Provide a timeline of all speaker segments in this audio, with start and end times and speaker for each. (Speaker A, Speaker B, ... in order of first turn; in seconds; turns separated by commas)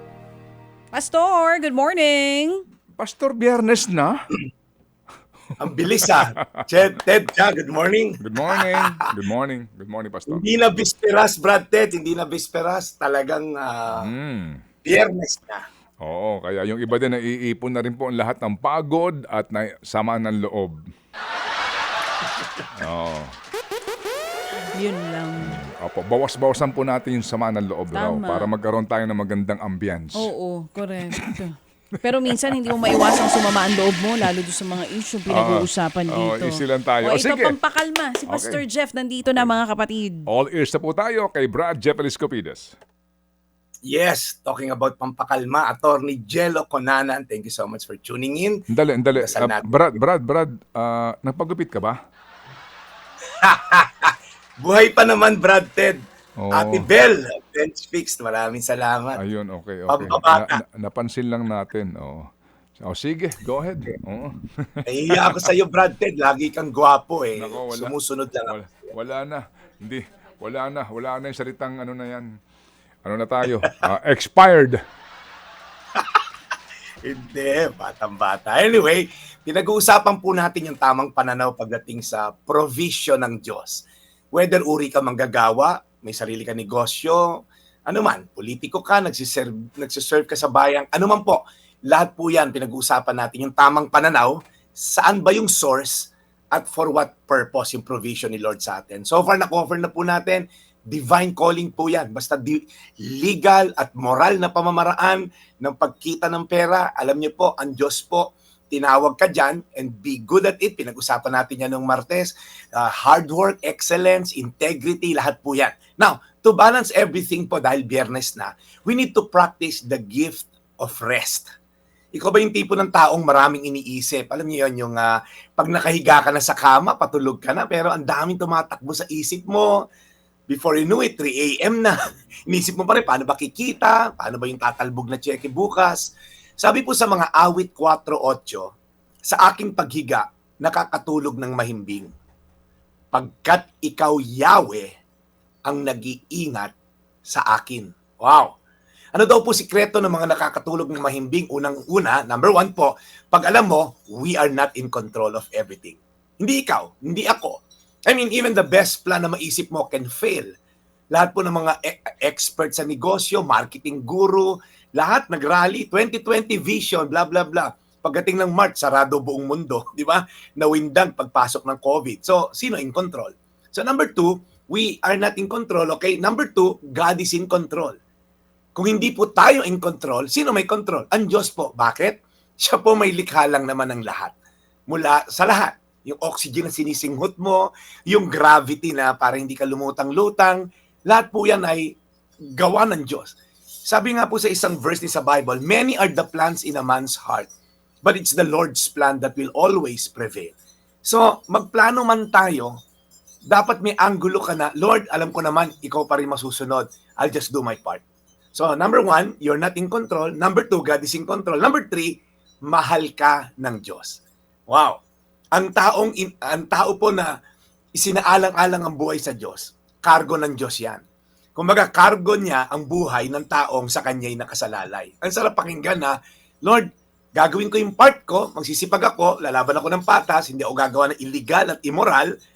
Speaker A: 0.9-2.6, Speaker B: 3.0-4.3, Speaker C: 5.6-9.1, Speaker B: 8.2-10.4, Speaker C: 10.3-14.1, Speaker B: 13.9-14.6, Speaker C: 14.8-15.7, Speaker B: 16.0-20.8, Speaker B: 22.8-23.4, Speaker A: 24.8-25.6, Speaker B: 25.4-30.3, Speaker A: 27.9-28.5, Speaker A: 30.2-40.2, Speaker B: 32.3-32.8, Speaker B: 35.3-37.5, Speaker B: 38.3-38.6, Speaker B: 39.3-39.6, Speaker B: 40.2-42.7, Speaker C: 43.9-48.6, Speaker B: 48.7-52.0, Speaker C: 49.2-49.8, Speaker C: 53.4-59.2, Speaker B: 56.4-56.9, Speaker B: 59.2-65.5, Speaker C: 59.9-60.6, Speaker C: 64.9-68.9, Speaker B: 67.4-72.3, Speaker B: 73.0-74.8, Speaker C: 77.0-121.5, Speaker C: 122.1-129.7, Speaker C: 130.5-136.1, Speaker C: 136.6-138.8, Speaker C: 139.3-142.1, Speaker C: 143.1-144.9, Speaker C: 145.7-146.7, Speaker C: 147.3-148.6, Speaker C: 149.2-160.5, Speaker C: 161.1-178.0, Speaker C: 178.8-184.3, Speaker C: 184.9-192.0, Speaker C: 192.6-197.5, Speaker C: 198.0-202.8, Speaker C: 203.5-215.0, Speaker C: 215.5-217.3, Speaker C: 217.9-221.0, Speaker C: 221.6-232.3